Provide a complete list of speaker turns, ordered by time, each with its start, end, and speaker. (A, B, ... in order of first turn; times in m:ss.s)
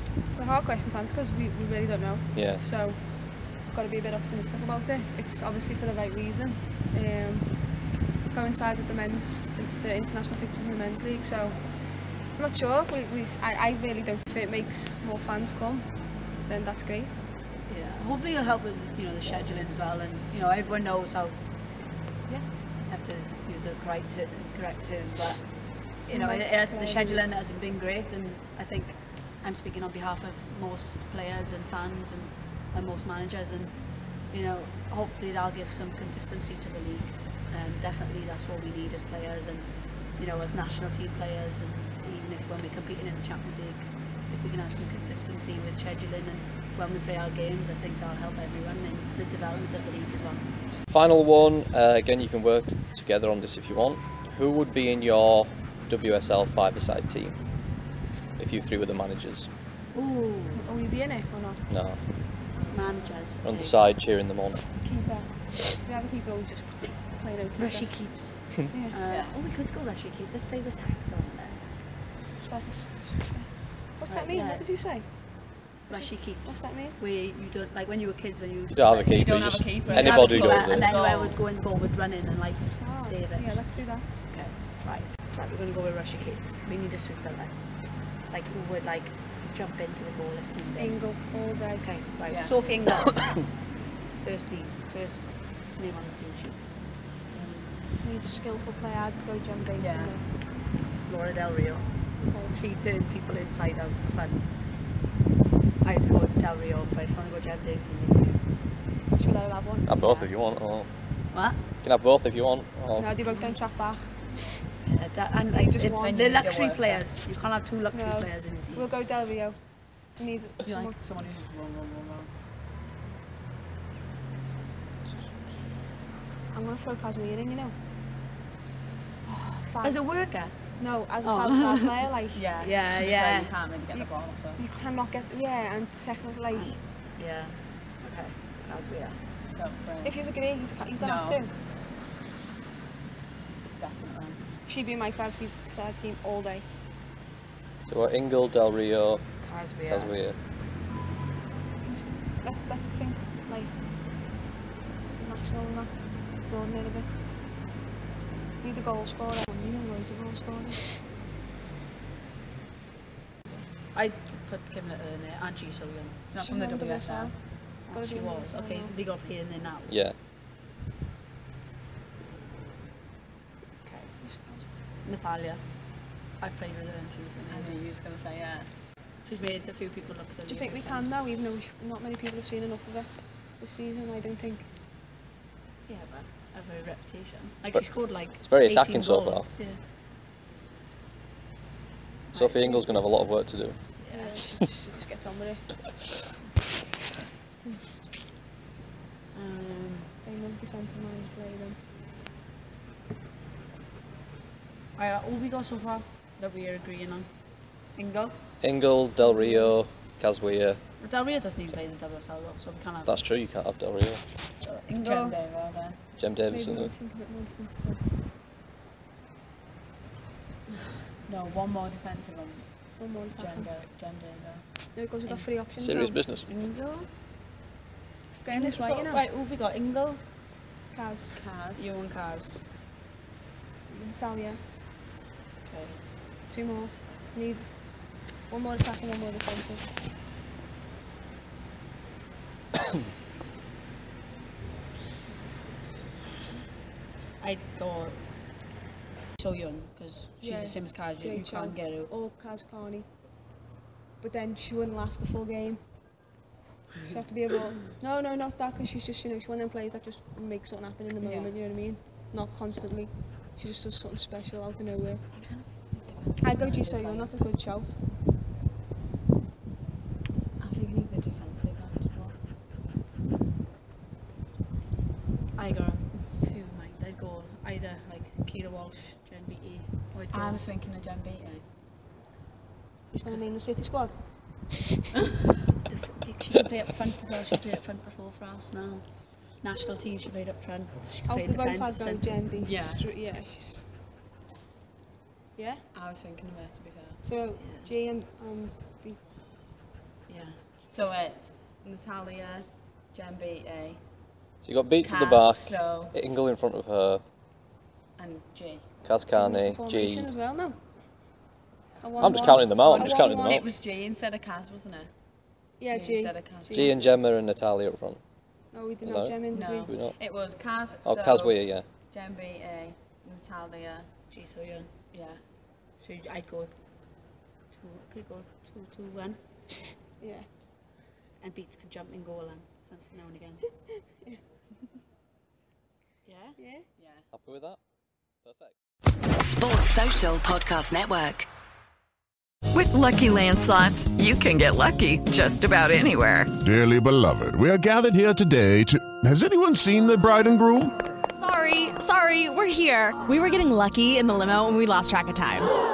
0:00.3-0:07.7 A
0:02.3-0:02.6 B
0:08.3-0:11.7 A
0:12.3-0:15.9 A
0:16.4-0:17.2 A
0:17.7-0:21.4 C
0:22.9-0:25.4 C
0:26.0-0:33.7 C
0:26.1-0:27.2 A
0:34.3-0:50.4 C
0:50.9-0:57.4 B
0:58.4-0:59.5 B
0:59.9-1:00.6 C
1:00.6-1:01.6 A
1:01.7-1:02.0 B
1:02.7-1:03.8 C
1:03.4-1:04.6 B
1:04.8-1:08.0 A
1:07.6-1:11.7 C
1:08.7-1:09.0 A
1:09.1-1:09.3 D
1:12.4-1:15.1 A
1:14.1-1:14.6 C
1:15.9-1:23.6 C
1:15.9-1:17.0 A
1:18.7-1:20.9 B
1:19.1-1:21.4 D
1:22.8-1:24.0 A
1:24.3-1:27.5 C
1:28.3-1:31.0 C
1:30.8-1:31.9 A
1:31.8-1:33.5 C
1:32.3-1:32.6 D
1:34.2-1:36.6 C
1:37.3-1:37.6 D
1:38.0-1:40.2 A
1:39.8-1:40.2 D
1:41.1-1:41.9 C
1:42.2-1:42.6 A
1:42.5-1:44.4 C
1:45.8-1:48.4 C
1:49.1-1:50.3 A
1:49.9-1:50.9 B
1:51.3-1:51.6 C
1:51.8-1:53.2 B
1:52.9-1:54.5 A
1:54.8-1:58.8 C
1:55.5-1:56.2 A
1:56.0-1:57.1 D
1:57.9-1:59.6 A
2:00.2-2:01.0 A
2:00.6-2:02.3 D
2:06.5-2:07.8 A
2:09.3-2:10.5 C
2:09.6-2:10.0 A
2:10.8-2:12.5 A
2:11.2-2:12.0 C
2:12.3-2:14.6 D
2:12.6-2:13.5 C
2:13.9-2:16.8 A
2:16.5-2:19.2 C
2:19.5-2:20.2 D
2:20.0-2:21.5 A
2:21.0-2:21.4 D
2:23.8-2:24.4 D
2:24.6-2:26.7 A
2:27.8-2:29.2 B
2:29.4-2:30.1 C
2:29.8-2:30.4 B
2:31.8-2:33.8 A
2:35.0-2:37.1 A
2:38.6-2:41.0 A
2:43.9-2:46.2 C
2:46.3-2:47.3 D
2:46.4-2:47.3 A
2:47.9-2:48.9 A
2:47.9-2:50.0 C
2:49.9-2:50.1 B
2:54.1-2:54.7 A
2:55.0-2:55.6 C
2:56.4-2:57.8 C
2:57.5-2:58.7 D
2:59.2-3:01.2 C
3:00.4-3:04.7 A
3:05.9-3:09.8 C
3:07.7-3:09.5 B
3:12.3-3:13.0 C
3:12.4-3:13.8 B
3:14.0-3:14.4 C
3:14.1-3:15.7 A
3:19.3-3:20.1 C
3:20.2-3:21.8 A
3:25.0-3:27.3 C
3:28.0-3:28.4 C
3:28.6-3:30.8 B
3:29.2-3:29.8 A
3:31.0-3:33.2 C
3:33.0-3:34.2 B
3:34.7-3:36.0 D
3:35.0-3:35.4 A
3:36.2-3:36.9 B
3:36.5-3:38.0 A
3:41.2-3:42.7 D
3:43.0-3:43.7 A
3:43.4-3:44.6 D
3:44.9-3:46.2 A
3:45.8-3:46.5 B
3:46.5-3:47.1 C
3:48.4-3:49.2 A
3:48.5-3:50.2 C
3:50.9-3:51.4 A
3:51.3-3:51.9 D
3:51.8-3:52.6 C
3:53.9-3:54.6 A
3:55.7-3:56.0 C
3:56.5-3:57.8 A
3:58.5-4:00.0 A
4:07.4-4:08.3 C
4:09.4-4:12.1 C
4:10.4-4:13.1 A
4:14.2-4:15.8 A
4:17.0-4:25.2 A
4:21.2-4:21.6 D
4:25.4-4:27.3 C
4:26.4-4:28.0 A
4:30.6-4:32.4 D
4:35.5-4:40.6 C
4:40.3-4:41.6 D
4:43.1-4:44.2 A
4:45.8-4:49.0 C
4:49.6-4:52.5 C
4:51.3-4:53.9 A
4:52.6-4:53.0 D
4:55.6-4:55.8 A
4:55.9-4:57.2 D
4:57.2-4:59.4 A
4:57.6-4:57.9 C
5:00.9-5:04.0 D
5:04.6-5:07.2 B
5:05.0-5:06.1 D
5:08.2-5:08.8 D
5:09.0-5:10.3 B
5:09.3-5:10.8 A
5:12.0-5:13.7 A
5:12.2-5:13.6 B
5:13.0-5:15.1 D
5:15.8-5:17.1 A
5:15.9-5:17.1 D
5:16.7-5:18.2 B
5:18.7-5:19.9 A
5:19.0-5:20.1 B
5:19.5-5:24.1 D
5:21.0-5:21.8 B
5:24.3-5:25.0 C
5:25.1-5:25.4 D
5:26.0-5:26.7 C
5:27.7-5:29.4 C
5:30.2-5:30.5 A
5:31.4-5:33.6 C
5:36.2-5:36.6 C
5:36.6-5:36.8 A
5:37.0-5:37.2 D
5:37.3-5:37.8 B
5:38.4-5:38.7 B
5:39.5-5:41.5 E
5:42.7-5:46.5 F
5:46.6-5:50.9 G
5:51.4-5:55.7 H